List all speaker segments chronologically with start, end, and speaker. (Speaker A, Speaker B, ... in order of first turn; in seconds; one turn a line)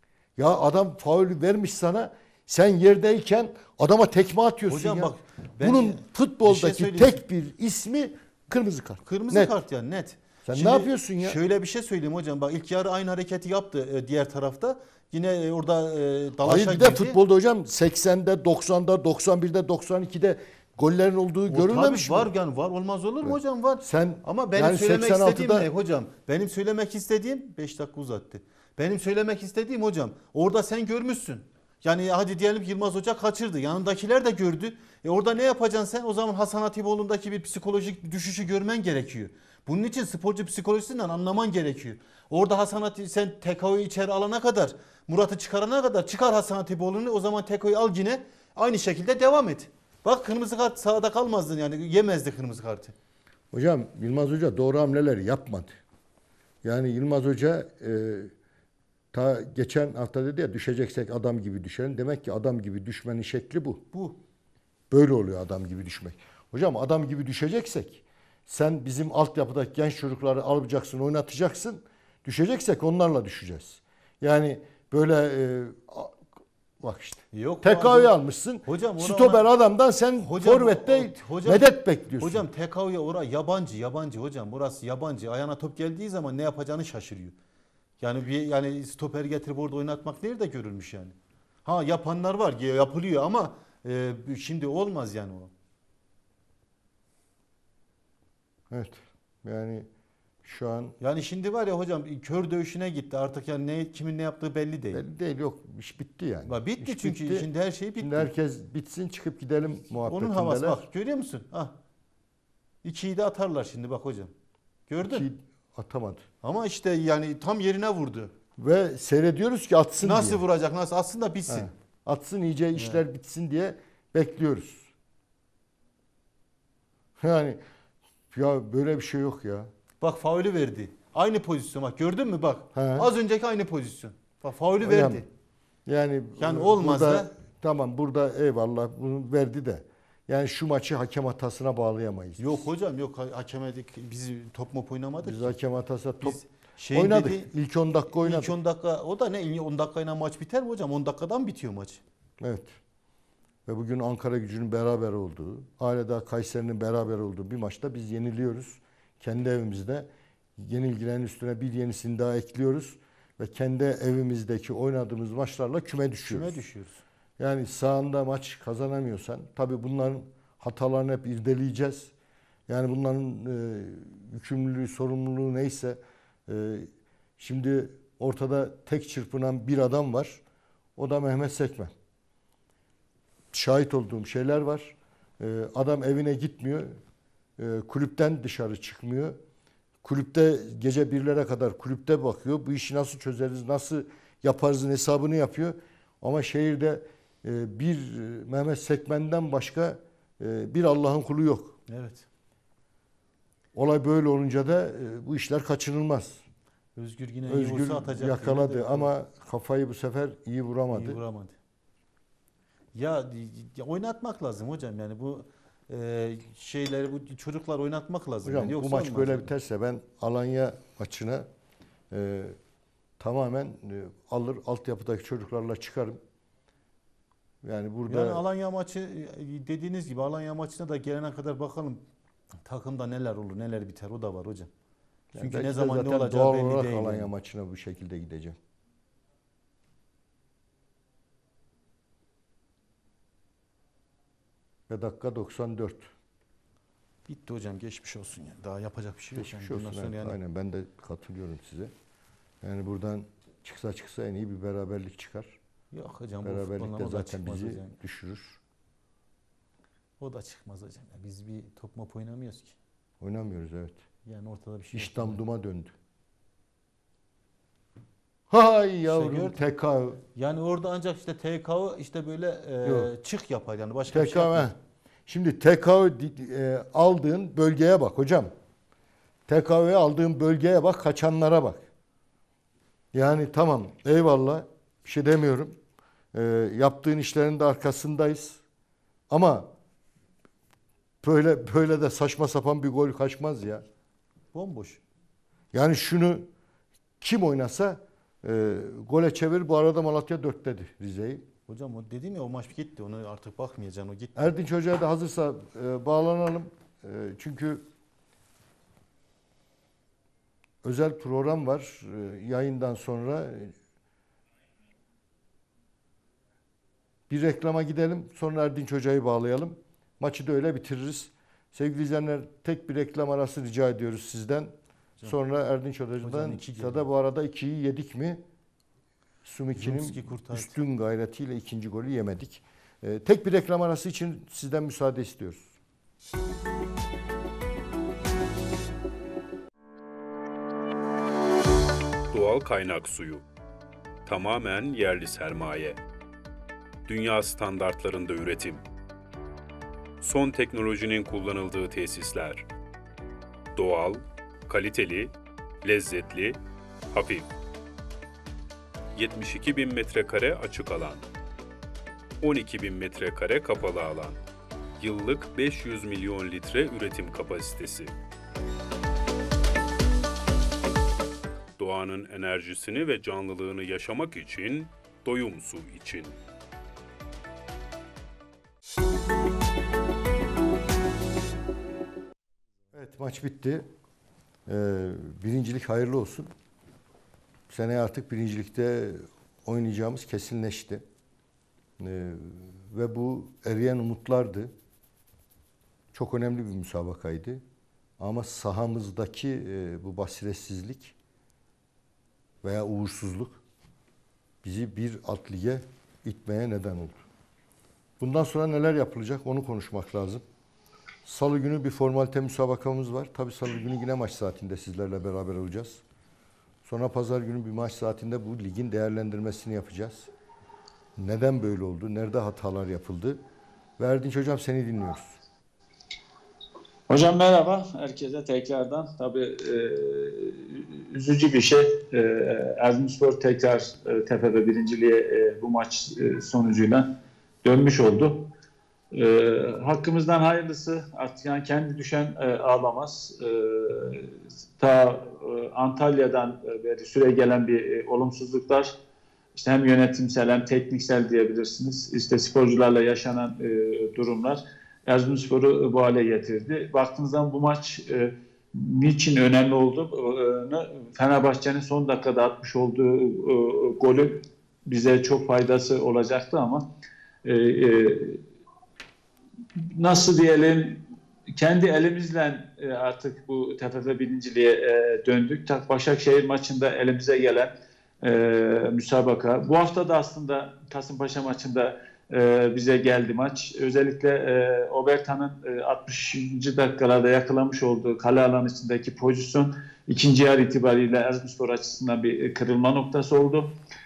Speaker A: 0.4-9.5
Speaker B: 4.7-7.2
Speaker B: 9.0-17.2
Speaker A: 10.4-11.4
Speaker A: 16.4-22.3
Speaker B: 21.5-52.9
Speaker A: 23.2-25.7
Speaker A: 53.5-55.7
Speaker A: 56.6-58.3
Speaker A: 59.1-63.8
Speaker B: 63.9-64.2
Speaker A: 64.9-76.2
Speaker A: 76.8-82.4
Speaker B: 77.3-79.4
Speaker B: 80.2-87.3
Speaker B: 88.0-95.5
Speaker A: 98.7-99.9
Speaker A: 100.4-101.0
Speaker B: 101.0-105.0
Speaker A: 104.9-110.8
Speaker B: 106.5-108.3
Speaker B: 110.0-111.8
Speaker B: 112.8-114.3
Speaker B: 114.9-115.2
Speaker A: 115.0-116.2
Speaker B: 116.4-118.3
Speaker A: 118.6-120.4
Speaker B: 120.0-121.7
Speaker A: 121.5-124.9
Speaker B: 122.8-123.0
Speaker A: 127.2-127.6
Speaker A: 128.3-129.7
Speaker B: 130.0-135.3
Speaker A: 132.7-133.1
Speaker A: 134.8-135.2
Speaker A: 135.8-142.7
Speaker B: 136.4-137.3
Speaker B: 142.4-145.5
Speaker A: 145.2-146.4
Speaker B: 146.2-147.5
Speaker A: 146.9-148.5
Speaker B: 148.1-152.0
Speaker A: 152.4-152.8
Speaker A: 153.7-166.6
Speaker B: 166.2-167.0
Speaker A: 167.4-172.1
Speaker A: 172.7-180.4
Speaker A: 180.9-181.9
Speaker A: 183.5-187.0
Speaker A: 187.6-189.3
Speaker A: 190.0-201.8
Speaker B: 201.9-202.2
Speaker A: 203.7-206.4
Speaker B: 206.9-209.1
Speaker A: 207.4-211.2
Speaker B: 210.9-211.5
Speaker B: 212.9-219.5
Speaker A: 218.4-221.5
Speaker A: 222.1-222.6
Speaker A: 223.2-226.2
Speaker A: 227.6-228.4
Speaker B: 228.1-232.0
Speaker B: 232.6-234.7
Speaker A: 235.3-238.6
Speaker B: 235.4-237.3
Speaker A: 244.9-246.1
Speaker B: 247.3-250.4
Speaker A: 249.3-251.9
Speaker A: 252.6-255.6
Speaker B: 255.9-257.9
Speaker A: 256.4-258.6
Speaker B: 260.2-262.8
Speaker A: 263.2-264.0
Speaker B: 264.2-265.4
Speaker A: 264.9-265.9
Speaker A: 268.5-270.2
Speaker B: 269.1-269.6
Speaker B: 270.3-274.7
Speaker A: 272.8-273.1
Speaker A: 274.1-274.7
Speaker A: 275.3-278.5
Speaker A: 279.5-281.8
Speaker A: 283.1-285.8
Speaker A: 286.3-288.6
Speaker A: 289.3-289.7
Speaker A: 291.2-293.8
Speaker B: 294.5-295.0
Speaker A: 295.7-296.5
Speaker A: 297.2-301.4
Speaker B: 301.7-304.5
Speaker A: 304.3-307.8
Speaker A: 310.8-313.7
Speaker A: 317.3-328.4
Speaker B: 326.2-327.1
Speaker A: 329.4-335.7
Speaker B: 329.8-330.8
Speaker C: 342.3-343.4
Speaker C: 344.2-346.0
Speaker C: 347.1-348.8
Speaker C: 350.2-352.6
Speaker C: 353.7-355.3
Speaker C: 355.8-356.6
Speaker C: 357.1-357.5
Speaker C: 359.1-361.2
Speaker C: 362.4-364.4
Speaker C: 365.0-368.1
Speaker C: 371.8-376.4
Speaker A: 382.9-383.9
Speaker A: 384.6-386.5
Speaker A: 387.7-391.0
Speaker A: 392.0-394.7
Speaker A: 396.1-397.6
Speaker A: 398.2-401.1
Speaker A: 402.6-403.6
Speaker A: 404.6-407.2
Speaker A: 408.2-410.4
Speaker A: 411.2-416.0
Speaker A: 416.8-420.3
Speaker A: 421.2-423.4
Speaker A: 424.0-425.4
Speaker D: 427.1-437.1
Speaker D: 437.6-438.5
Speaker D: 439.1-448.9
Speaker D: 449.5-466.8
Speaker D: 467.4-468.4
Speaker D: 469.8-471.0
Speaker D: 471.6-493.7